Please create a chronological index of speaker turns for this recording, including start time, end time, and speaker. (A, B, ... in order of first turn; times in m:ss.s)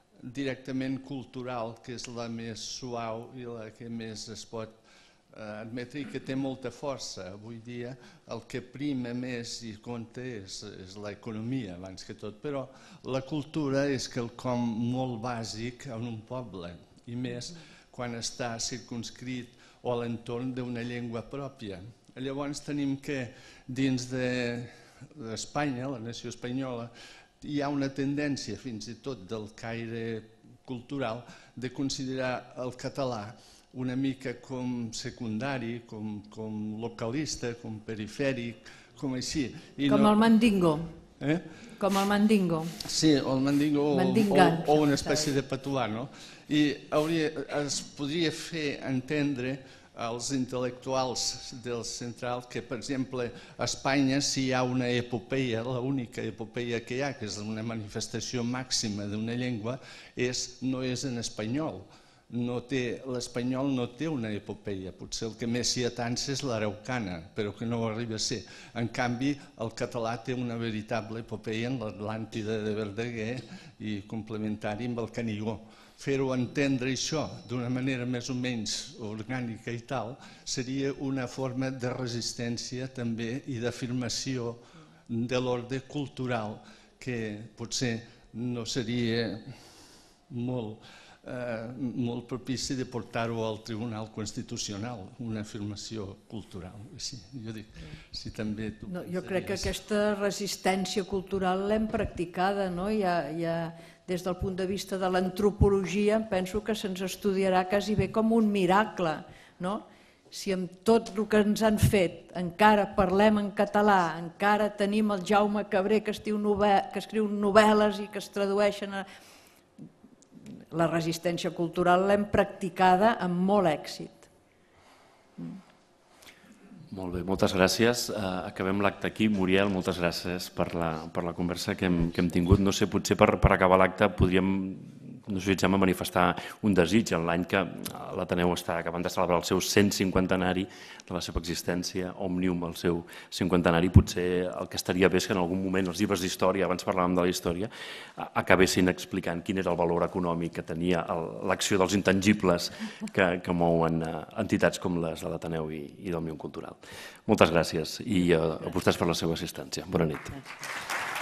0:00.2-0:40.2 A
0:39.9-0:40.9 B
0:41.2-0:41.7 A
0:41.8-0:42.8 B
0:42.8-1:39.7 A
0:43.9-0:45.4 B
1:38.9-1:59.1 B
2:00.7-2:04.3 B
2:06.9-2:40.4 C